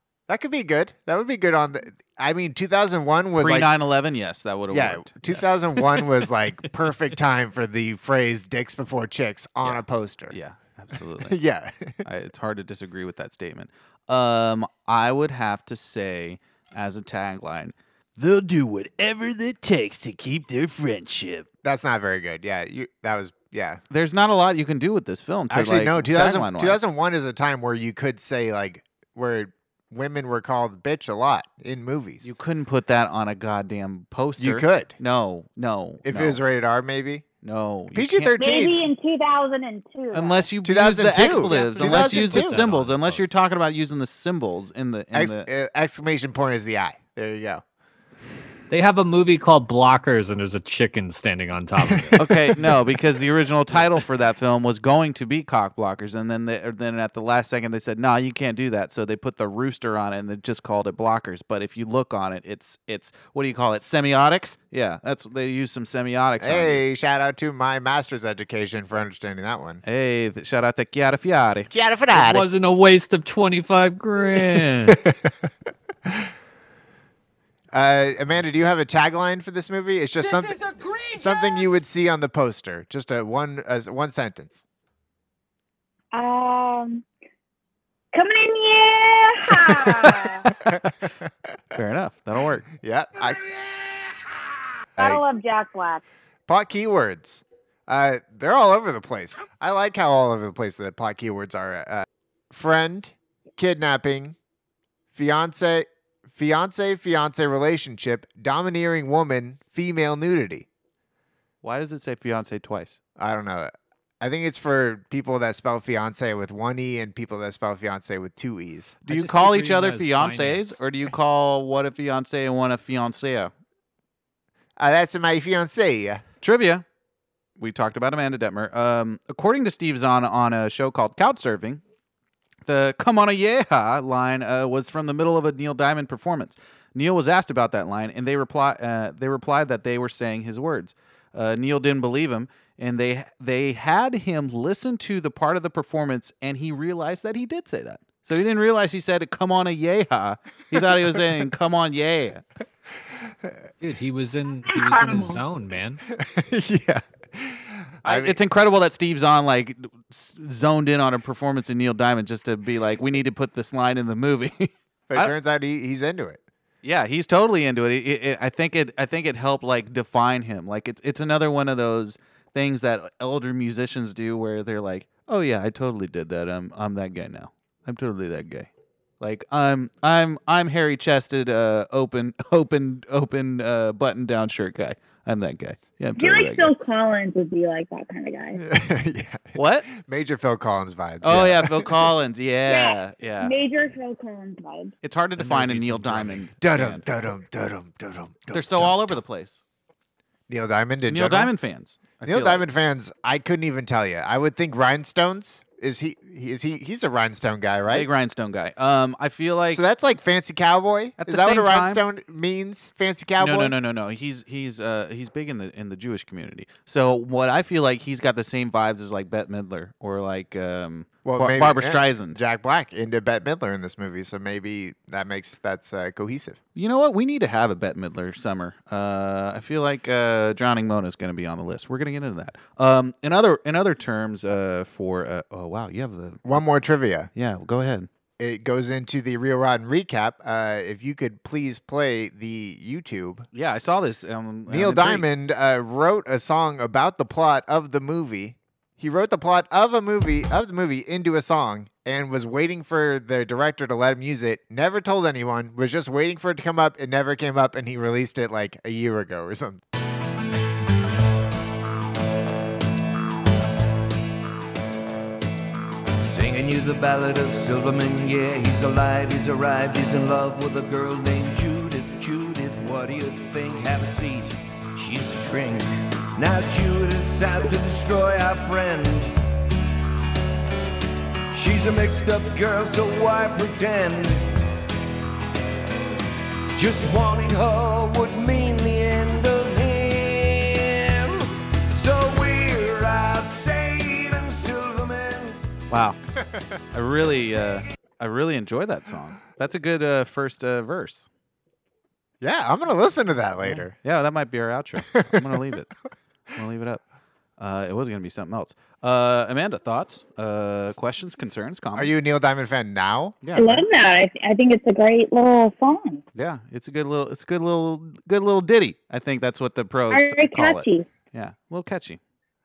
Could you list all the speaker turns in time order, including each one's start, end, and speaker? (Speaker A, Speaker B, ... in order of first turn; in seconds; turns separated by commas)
Speaker A: 0.3-3.7, Speaker B: 3.4-6.1, Speaker A: 4.7-10.3, Speaker B: 9.6-11.4, Speaker A: 11.2-12.0, Speaker B: 12.0-21.5, Speaker A: 21.6-23.8, Speaker B: 23.9-26.8, Speaker A: 25.5-32.2, Speaker B: 32.2-36.4, Speaker A: 34.4-35.0, Speaker A: 36.0-37.3, Speaker B: 37.4-38.4, Speaker A: 37.9-38.8, Speaker C: 38.4-40.5, Speaker B: 40.1-45.5, Speaker A: 40.6-42.6, Speaker D: 41.3-43.3, Speaker A: 45.1-47.6, Speaker D: 48.7-52.2, Speaker B: 52.2-66.8, Speaker A: 66.4-69.8, Speaker B: 69.8-71.7, Speaker A: 71.7-72.5, Speaker D: 72.1-75.0, Speaker A: 74.5-75.5, Speaker A: 77.7-80.6, Speaker A: 81.1-84.6, Speaker C: 86.1-87.0, Speaker C: 88.1-90.4, Speaker B: 89.9-90.9, Speaker A: 90.6-91.3, Speaker B: 91.7-92.7, Speaker A: 92.8-93.4, Speaker A: 95.0-95.2, Speaker C: 95.0-96.0, Speaker A: 96.5-104.3, Speaker A: 105.1-110.7, Speaker B: 111.6-113.0, Speaker A: 113.2-119.0, Speaker D: 119.0-120.8, Speaker B: 119.1-123.5, Speaker A: 124.8-126.2, Speaker B: 126.4-126.8, Speaker B: 127.6-131.8, Speaker B: 132.7-152.4, Speaker D: 153.8-156.0, Speaker C: 154.7-155.4, Speaker A: 156.1-158.4, Speaker B: 158.0-165.3, Speaker A: 165.1-166.4, Speaker B: 166.8-178.7, Speaker B: 179.2-186.7, Speaker C: 186.2-188.6, Speaker A: 188.6-192.1, Speaker B: 189.5-189.9, Speaker B: 191.2-193.5, Speaker C: 192.7-194.9, Speaker B: 195.0-197.0, Speaker D: 195.4-196.5, Speaker A: 196.6-199.2, Speaker B: 198.5-199.6, Speaker A: 200.5-201.5, Speaker B: 201.1-202.6, Speaker A: 202.2-208.1, Speaker B: 207.9-209.8, Speaker A: 209.7-213.7, Speaker B: 211.2-212.0, Speaker B: 213.4-222.4, Speaker A: 221.2-226.6, Speaker B: 226.8-236.5, Speaker A: 236.4-237.3, Speaker B: 237.3-238.1, Speaker A: 238.4-243.4, Speaker B: 243.5-245.2, Speaker A: 244.7-259.8, Speaker E: 266.2-279.3, Speaker E: 281.5-284.5, Speaker E: 286.7-295.6, Speaker B: 295.9-296.2, Speaker B: 296.9-301.3, Speaker A: 302.4-303.9, Speaker B: 303.6-305.9, Speaker A: 305.1-305.6, Speaker B: 306.5-307.0, Speaker B: 307.6-312.1, Speaker A: 311.9-313.4, Speaker B: 313.4-313.8, Speaker C: 313.5-316.2, Speaker B: 316.4-322.2, Speaker C: 320.1-321.1